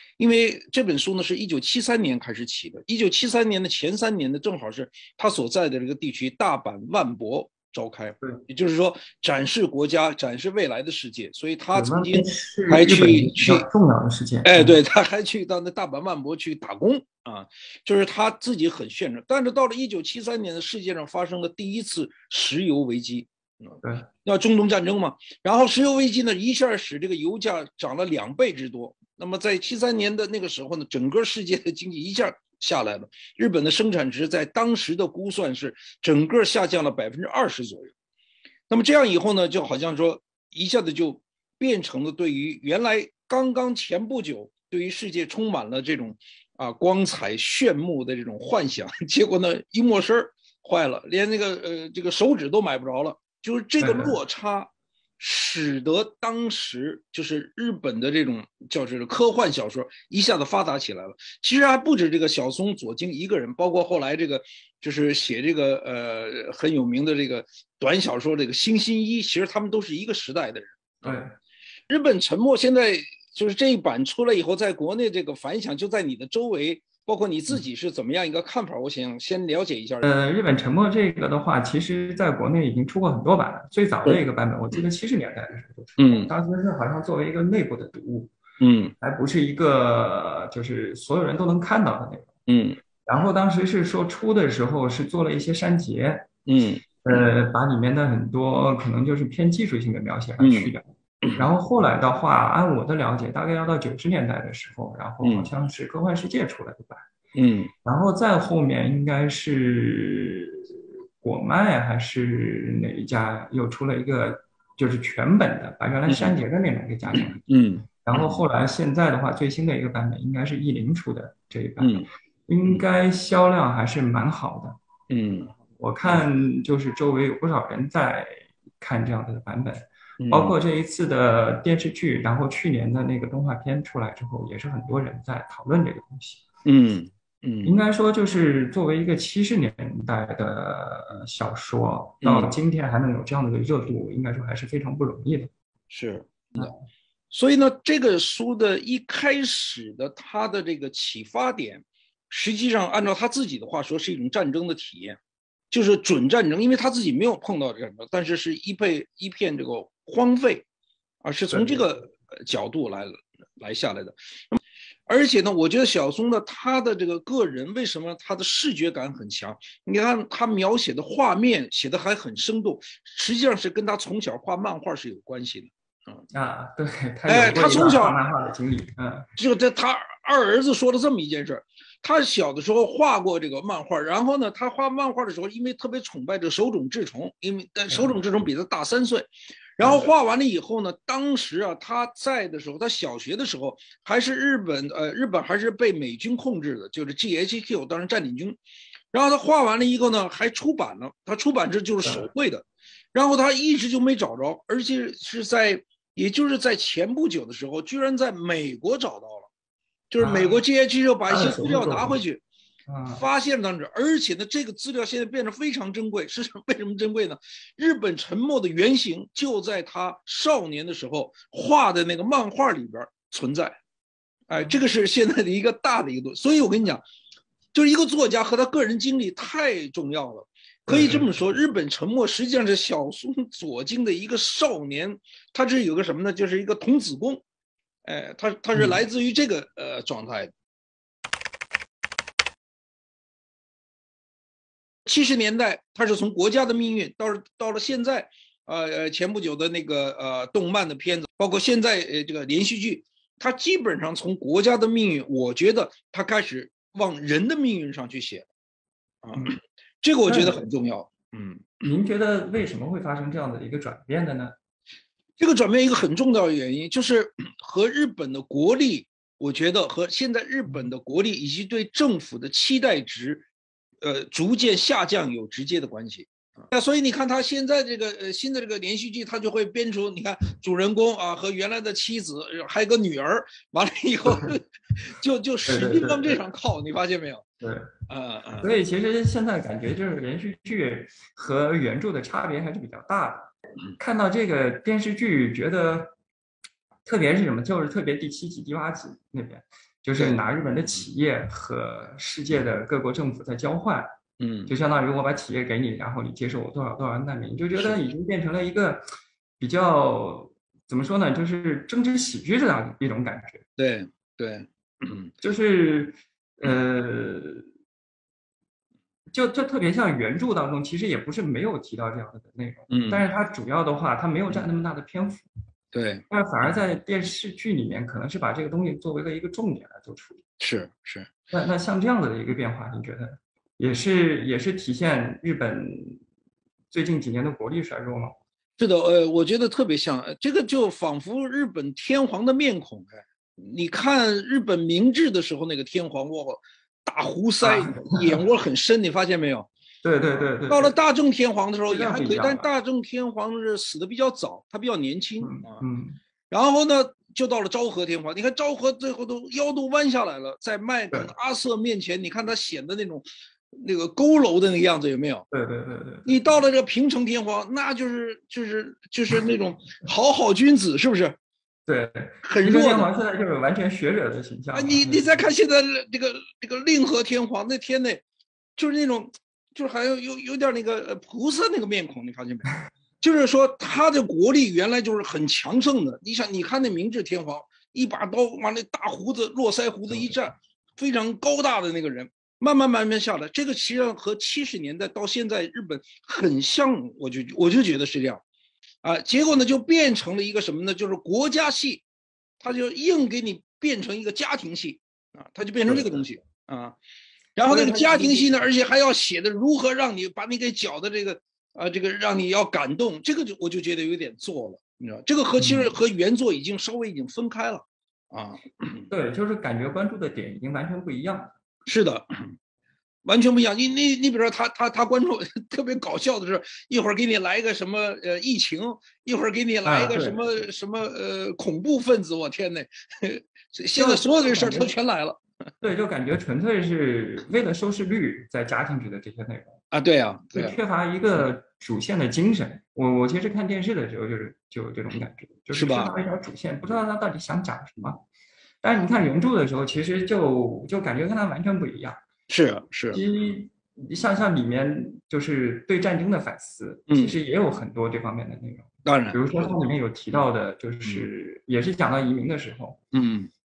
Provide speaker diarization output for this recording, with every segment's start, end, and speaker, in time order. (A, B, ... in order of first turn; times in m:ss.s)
0:00.2-0:13.7 A
0:11.7-0:14.8 B
0:14.4-0:37.9 A
0:38.7-1:11.2 A
0:53.8-0:54.2 B
1:11.0-1:11.3 B
1:11.9-1:20.0 A
1:20.0-1:28.3 B
1:24.0-1:24.8 A
1:26.0-1:26.3 A
1:28.6-1:28.9 A
1:29.0-1:32.3 B
1:32.5-1:32.8 A
1:33.0-1:36.3 B
1:36.4-1:37.3 A
1:37.0-1:47.1 B
1:40.4-1:41.4 A
1:45.2-1:45.5 A
1:47.3-1:47.7 A
1:47.8-1:57.4 B
1:56.1-1:56.4 A
1:57.1-1:58.4 A
1:58.0-2:04.8 B
2:01.8-2:02.1 A
2:05.1-2:05.5 A
2:05.8-2:16.4 B
2:10.2-2:10.6 A
2:16.6-2:17.8 A
2:17.6-2:25.5 B
2:22.2-2:22.5 A
2:25.9-2:26.7 A
2:27.3-2:35.2 A
2:35.7-2:40.7 A
2:41.2-2:56.2 A
2:41.5-2:42.0 B
2:56.3-2:59.3 B
2:57.3-2:58.2 A
2:59.4-3:18.6 A
3:07.9-3:08.2 B
3:09.8-3:10.1 B
3:19.1-3:29.5 A
3:22.0-3:22.3 B
3:30.1-3:32.4 A
3:30.2-3:30.6 B
3:31.3-3:32.2 B
3:32.9-3:33.2 B
3:33.1-3:43.8 A
3:44.5-3:47.0 A
3:47.7-3:57.4 A
3:50.9-3:51.3 B
3:58.0-4:00.5 A
3:58.7-3:59.0 B
4:05.0-4:18.5 A
4:19.2-4:21.8 A
4:20.3-4:20.6 B
4:21.8-4:24.5 B
4:25.4-4:33.4 A
4:34.0-4:47.4 A
4:45.6-4:46.4 B
4:47.6-4:47.9 B
4:48.1-4:48.8 A
4:48.6-4:56.1 B
4:57.0-5:04.1 B
5:00.2-5:00.5 A
5:04.4-5:04.7 A
5:04.7-5:09.0 B
5:09.6-5:13.6 B
5:13.8-5:15.3 A
5:15.4-5:17.6 B
5:19.3-5:25.5 B
5:22.9-5:23.3 A
5:25.9-5:26.7 A
5:26.3-5:30.4 B
5:30.6-5:31.3 A
5:31.5-5:36.2 B
5:36.9-5:38.3 B
5:38.8-5:49.7 A
5:47.6-5:48.4 B
5:50.0-5:50.9 B
5:50.7-5:55.8 A
5:51.9-5:52.7 B
5:55.4-5:56.2 B
5:56.5-6:05.5 A
6:05.5-6:06.3 B
6:06.2-6:11.3 A
6:11.9-6:15.4 B
6:12.4-6:13.1 A
6:14.7-6:18.2 A
6:18.8-6:22.7 A
6:23.2-6:38.4 A
6:30.1-6:30.4 B
6:39.0-6:42.0 A
6:42.6-6:47.0 A
6:45.8-6:46.2 B
6:47.6-6:59.1 A
6:47.6-6:48.7 B
6:55.6-6:55.9 B
6:59.1-7:01.5 B
7:01.9-7:02.5 A
7:03.2-7:15.4 A
7:09.8-7:10.6 B
7:13.9-7:14.9 B
7:15.8-7:19.8 B
7:19.9-7:20.8 A
7:20.5-7:28.2 B
7:25.7-7:26.1 A
7:28.8-7:32.2 B
7:32.5-7:33.2 A
7:33.1-7:43.0 B
7:37.1-7:37.4 A
7:39.0-7:39.8 A
7:43.1-7:43.5 A